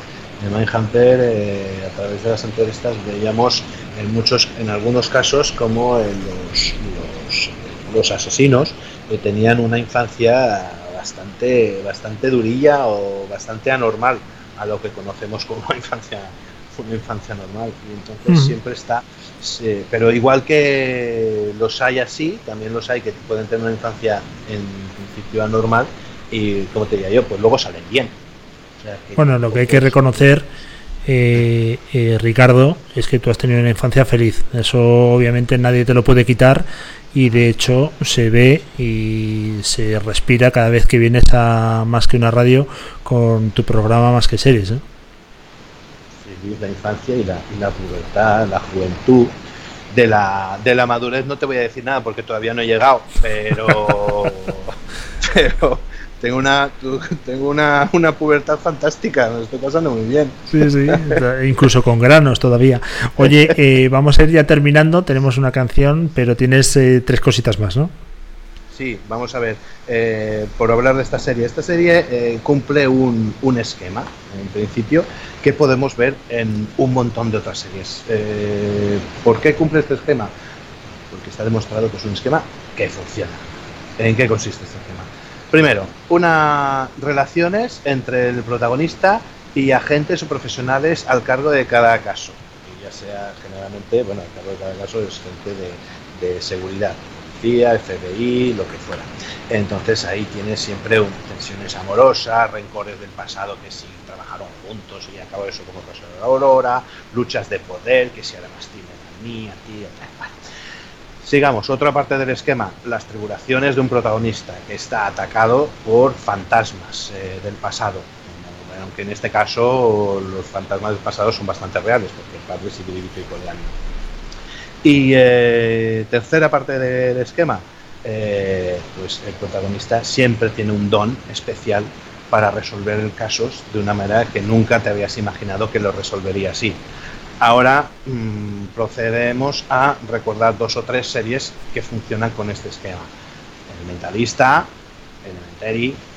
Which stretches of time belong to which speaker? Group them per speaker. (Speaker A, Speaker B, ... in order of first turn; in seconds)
Speaker A: 0.4-28.2, 28.8-30.3, 46.2-49.3, 49.9-61.2, 63.2-63.5, 68.7-80.3, 81.1-83.5, 84.0-110.4, 111.2-123.7, 124.8-136.8, 137.4-143.1, 143.7-144.7, 145.2-146.0
Speaker B: 18.3-18.5, 29.2-30.5, 31.1-44.8, 60.5-67.9